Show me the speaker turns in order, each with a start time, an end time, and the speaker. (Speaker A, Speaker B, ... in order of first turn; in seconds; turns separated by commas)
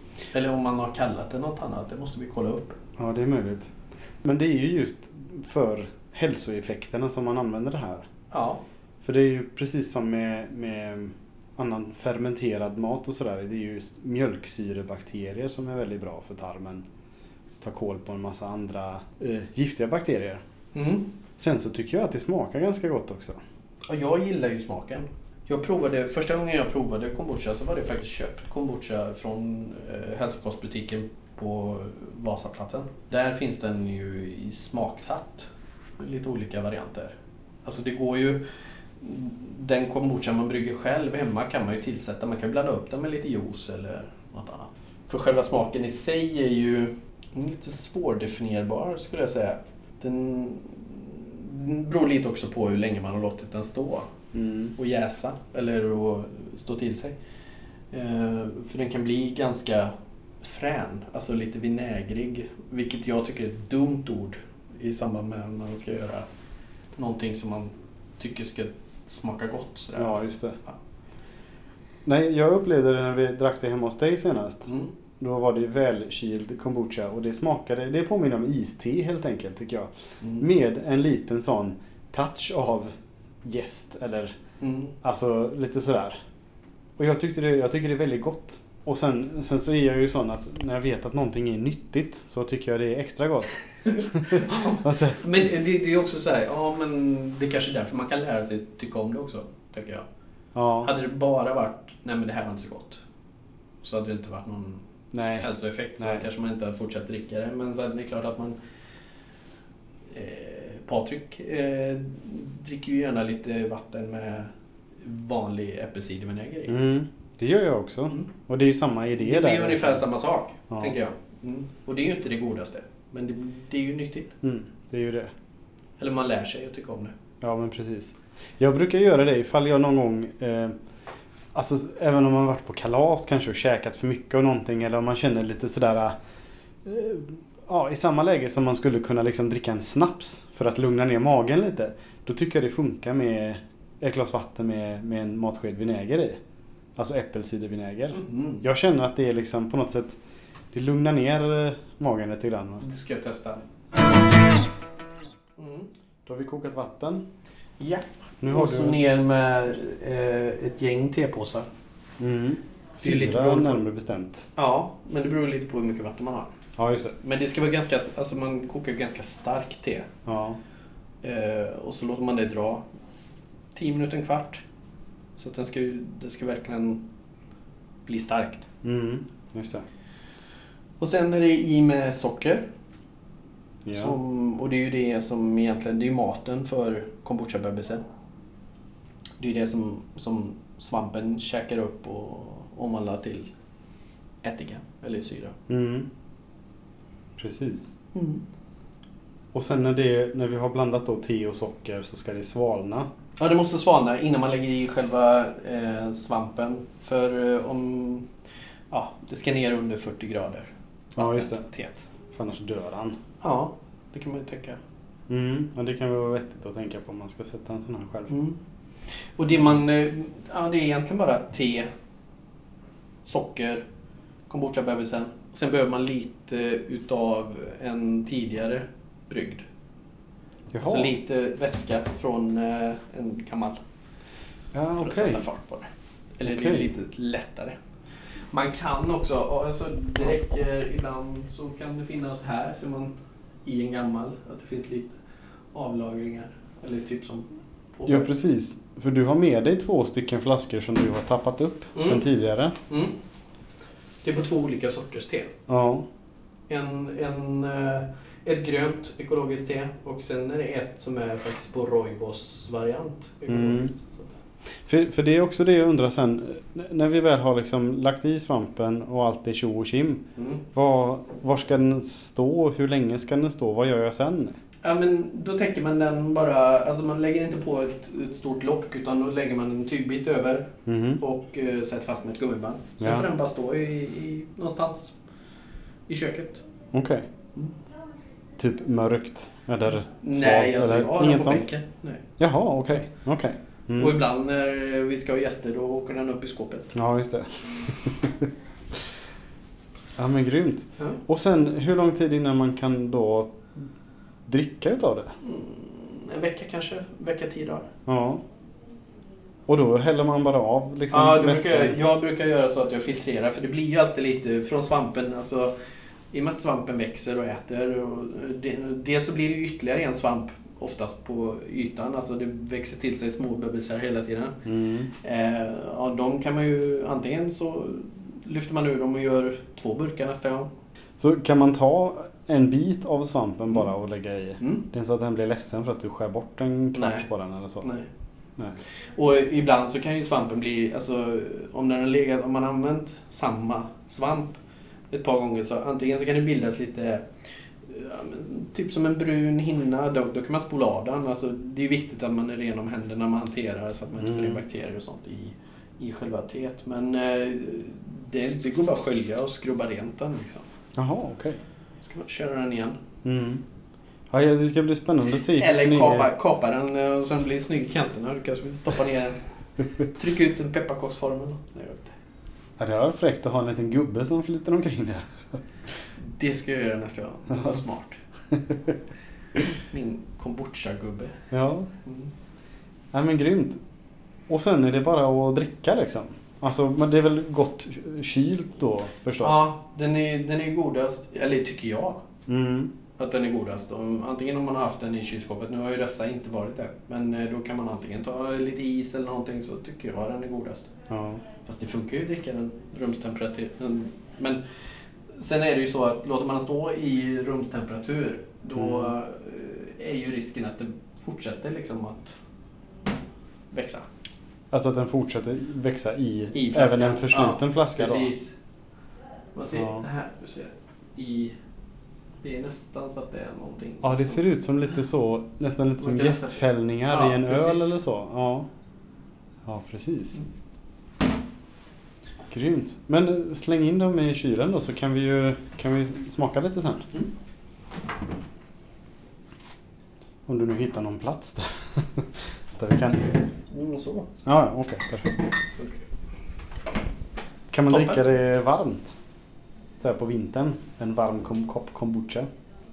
Speaker A: 0.3-2.8, Speaker B: 3.0-8.1, Speaker A: 8.3-8.6, Speaker B: 9.0-16.9, Speaker B: 17.6-20.4, Speaker A: 20.7-21.1, Speaker B: 21.4-23.4, Speaker A: 23.9-35.5, Speaker A: 36.0-38.4, Speaker A: 39.0-54.1, Speaker B: 54.3-54.7, Speaker A: 54.8-57.2, Speaker A: 57.9-66.3, Speaker A: 67.0-70.8, Speaker B: 70.0-70.6, Speaker B: 72.0-82.9, Speaker A: 74.7-74.9, Speaker A: 80.2-80.5, Speaker B: 83.4-84.4, Speaker A: 84.6-85.0, Speaker B: 85.0-86.2, Speaker B: 87.0-95.2, Speaker A: 93.8-100.1, Speaker B: 100.5-100.9, Speaker A: 100.8-103.0, Speaker A: 103.8-104.8, Speaker B: 105.1-106.2, Speaker A: 105.4-108.6, Speaker A: 110.1-116.8, Speaker B: 116.7-120.0, Speaker A: 119.2-124.4, Speaker B: 120.7-121.0, Speaker B: 124.4-125.3, Speaker A: 126.0-127.1, Speaker B: 127.4-130.8, Speaker B: 131.5-136.2, Speaker B: 136.8-146.4, Speaker B: 146.9-150.2, Speaker A: 148.1-148.6, Speaker B: 150.7-152.8, Speaker A: 152.8-153.6, Speaker A: 155.6-155.9, Speaker B: 156.2-157.2, Speaker A: 157.8-161.7, Speaker B: 158.4-159.0, Speaker B: 162.2-164.5, Speaker A: 163.0-163.8, Speaker A: 164.6-166.5, Speaker B: 166.8-167.2, Speaker A: 167.2-170.1, Speaker B: 170.2-170.6, Speaker A: 171.2-172.9, Speaker A: 173.8-174.6, Speaker A: 175.4-177.1, Speaker A: 178.1-178.7, Speaker B: 178.8-179.9, Speaker A: 181.0-182.7, Speaker B: 183.8-184.2, Speaker A: 183.9-188.0, Speaker A: 189.4-193.5, Speaker A: 194.4-195.6, Speaker B: 195.7-196.1, Speaker B: 197.4-197.9, Speaker A: 198.1-198.4, Speaker B: 199.5-203.1, Speaker A: 203.4-208.3, Speaker A: 208.9-212.0, Speaker B: 211.2-211.7, Speaker B: 212.3-213.2, Speaker A: 213.4-214.8, Speaker B: 215.3-218.3, Speaker A: 218.3-218.6, Speaker A: 219.4-221.9, Speaker A: 223.2-223.8, Speaker A: 224.5-229.7, Speaker B: 230.7-231.1, Speaker A: 230.8-233.8, Speaker B: 234.7-235.4, Speaker A: 235.0-237.8, Speaker B: 236.4-236.9, Speaker A: 238.3-245.2, Speaker A: 245.7-248.3, Speaker B: 248.1-252.8, Speaker A: 251.9-252.2, Speaker A: 252.9-253.2, Speaker A: 254.2-255.5, Speaker B: 255.7-256.1, Speaker A: 256.7-264.4, Speaker B: 263.5-263.9, Speaker B: 264.9-274.6, Speaker A: 270.4-270.6, Speaker A: 274.8-285.1, Speaker B: 280.9-281.2, Speaker B: 283.0-283.3, Speaker A: 286.1-286.6, Speaker B: 286.9-287.3, Speaker B: 288.6-291.7, Speaker A: 290.2-292.2, Speaker B: 292.4-294.2, Speaker A: 294.0-296.9, Speaker B: 296.9-298.5, Speaker B: 300.2-303.9, Speaker B: 304.4-305.4, Speaker A: 305.4-307.9, Speaker B: 308.1-308.4, Speaker B: 309.7-312.0, Speaker A: 311.1-315.7, Speaker A: 316.3-324.6, Speaker B: 324.6-325.1, Speaker A: 325.2-330.7, Speaker B: 331.2-337.9, Speaker A: 336.9-337.3, Speaker A: 337.8-338.1, Speaker A: 339.1-344.6, Speaker A: 345.1-347.3, Speaker A: 347.8-360.7, Speaker B: 354.2-354.6, Speaker B: 360.9-361.6, Speaker A: 362.0-363.0, Speaker B: 363.2-363.6, Speaker B: 364.3-366.3, Speaker A: 365.5-369.4, Speaker A: 370.0-372.2, Speaker B: 372.8-375.6, Speaker A: 376.2-378.2, Speaker B: 378.5-378.9, Speaker A: 379.8-381.4, Speaker B: 381.5-381.9, Speaker A: 382.0-382.3, Speaker B: 383.1-383.8, Speaker B: 384.5-389.6, Speaker A: 389.4-392.2, Speaker B: 392.5-392.9, Speaker A: 393.2-400.9, Speaker B: 401.1-401.4, Speaker A: 401.6-404.6, Speaker A: 405.3-412.4, Speaker B: 408.8-409.1, Speaker A: 413.7-414.1, Speaker B: 414.7-418.3, Speaker A: 416.5-418.5, Speaker A: 419.5-421.5, Speaker B: 419.7-420.0, Speaker A: 422.4-424.4, Speaker B: 424.0-428.7, Speaker A: 426.0-427.9, Speaker B: 429.6-430.4, Speaker B: 432.5-437.1, Speaker B: 440.5-443.4, Speaker A: 443.7-444.3, Speaker B: 444.4-445.5, Speaker A: 445.8-446.0, Speaker B: 447.7-449.2, Speaker A: 447.9-448.2, Speaker B: 450.0-452.5